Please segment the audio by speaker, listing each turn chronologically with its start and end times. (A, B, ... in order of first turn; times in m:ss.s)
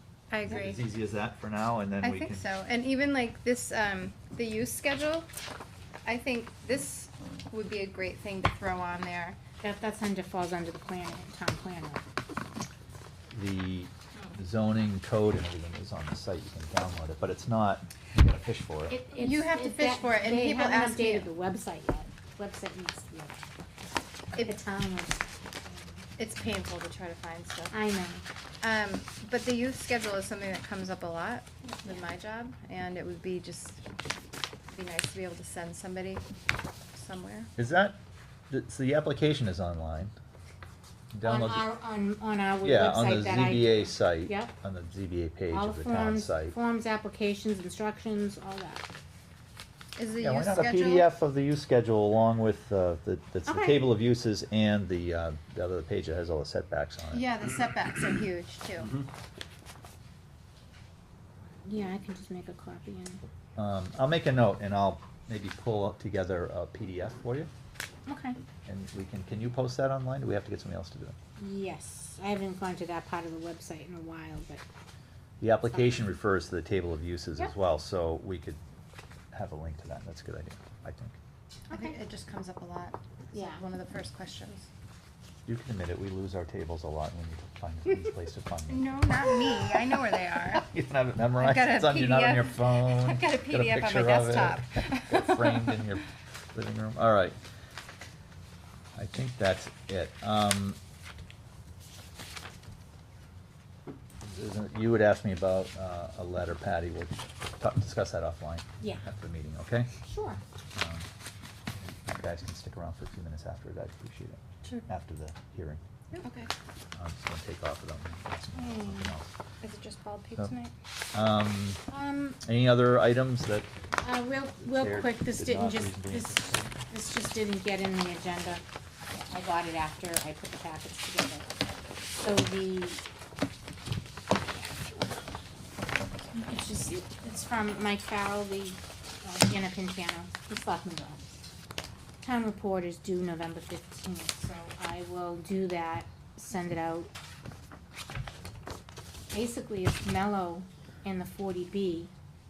0:00.3-0:00.8 A
0:00.5-0:02.4 B
0:02.0-0:05.3 A
0:06.0-0:09.4 A
0:09.6-0:12.0 C
0:13.3-0:19.0 B
0:18.9-0:23.3 C
0:19.1-0:21.3 A
0:24.4-0:26.0 C
0:26.2-0:27.7 A
0:27.7-0:28.2 C
0:28.6-0:33.8 A
0:34.7-0:36.2 A
0:36.9-0:37.5 A
0:37.6-0:38.0 B
0:38.5-0:40.2 B
0:41.1-0:41.7 B
0:41.2-0:44.5 C
0:42.6-0:46.6 B
0:45.5-0:48.8 C
0:50.0-0:51.1 A
0:50.2-0:57.3 B
0:53.4-0:53.8 C
0:57.1-0:59.0 A
1:01.6-1:03.2 C
1:03.6-1:07.5 B
1:08.1-1:08.4 C
1:08.7-1:11.2 B
1:11.4-1:14.6 C
1:15.4-1:18.6 B
1:19.3-1:21.2 B
1:21.7-1:22.0 C
1:21.7-1:24.7 A
1:23.3-1:23.6 C
1:25.5-1:29.8 B
1:28.7-1:30.6 A
1:30.5-1:37.4 B
1:31.4-1:35.8 A
1:38.9-1:40.8 B
1:44.2-1:49.9 B
1:48.8-1:49.0 C
1:50.0-1:50.4 C
1:50.8-1:51.1 B
1:51.8-1:55.8 B
1:56.1-1:56.5 A
1:56.9-1:59.3 B
1:58.6-1:59.1 C
1:59.6-2:00.7 A
2:01.1-2:01.8 B
2:01.9-2:02.4 C
2:02.4-2:03.7 B
2:04.0-2:11.5 C
2:04.6-2:06.9 B
2:12.2-2:13.0 C
2:14.4-2:15.2 C
2:16.3-2:21.4 C
2:22.2-2:27.1 C
2:29.3-2:32.1 C